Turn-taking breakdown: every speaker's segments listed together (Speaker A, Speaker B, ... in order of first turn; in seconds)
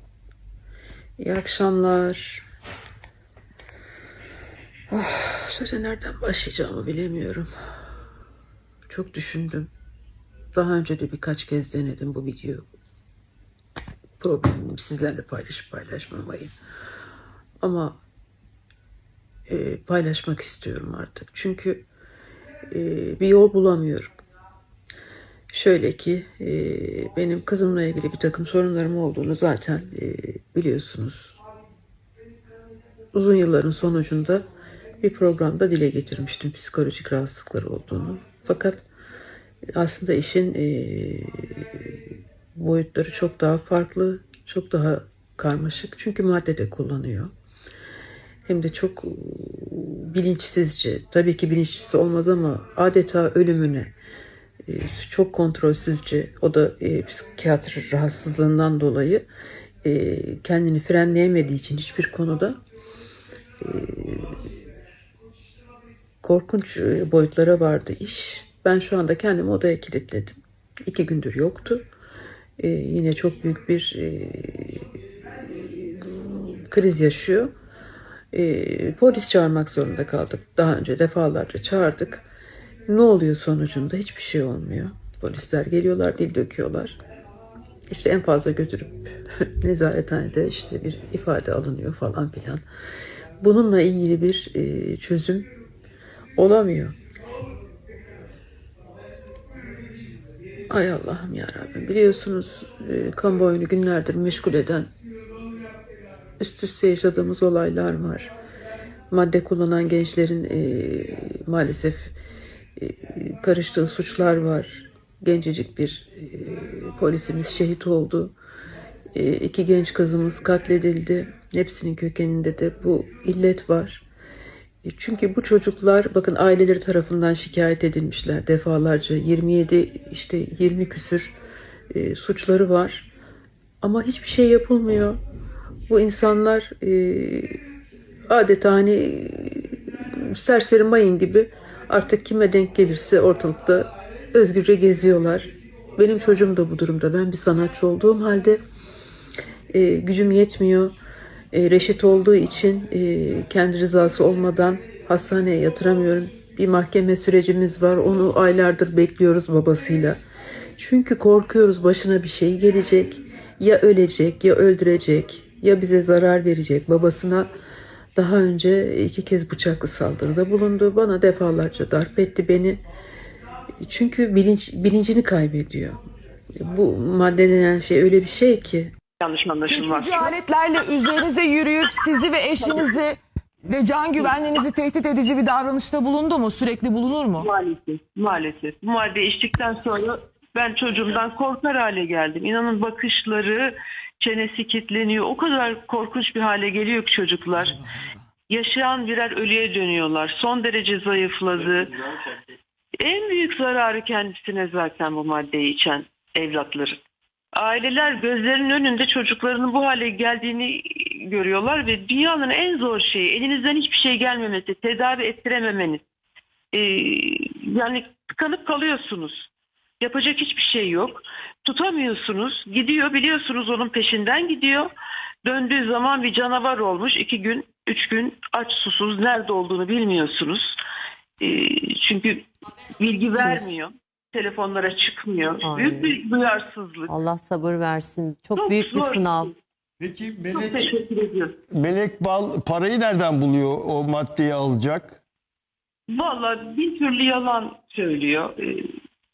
Speaker A: 1.2-2.4, 4.9-7.5, 8.9-9.7, 10.5-12.7, 14.2-16.5, 17.6-18.0, 19.5-21.9, 22.7-24.1, 25.5-31.4, 33.1-34.5, 35.0-38.8, 39.7-42.0, 42.5-47.3, 48.5-53.9, 54.6-59.3, 59.8-62.6, 63.6-64.3, 66.2-71.9, 72.6-74.9, 75.5-77.5, 78.3-82.3, 82.9-87.0, 87.9-92.6, 93.4-95.5, 96.4-96.9, 100.7-104.9, 106.4-108.3, 109.1-112.1, 112.8-118.3, 119.1-124.0, 124.8-131.3, 131.9-133.1, 133.8-135.2, 135.9-137.6, 138.3-148.6, 149.7-150.9, 151.5-160.2, 160.8-167.5, 168.2-172.8, 173.8-176.0, 176.6-178.9
Speaker B: 179.2-180.4, 182.6-182.9, 187.4-197.8, 198.5-201.9, 203.0-207.0, 207.6-216.0, 216.7-219.5, 220.0-224.9, 225.4-230.8, 231.4-237.1, 238.6-239.5, 240.5-241.6, 246.1-248.8
Speaker C: 179.7-187.5
Speaker D: 233.4-233.6, 235.6-236.2, 237.1-239.5
Speaker E: 240.0-240.9, 241.7-245.2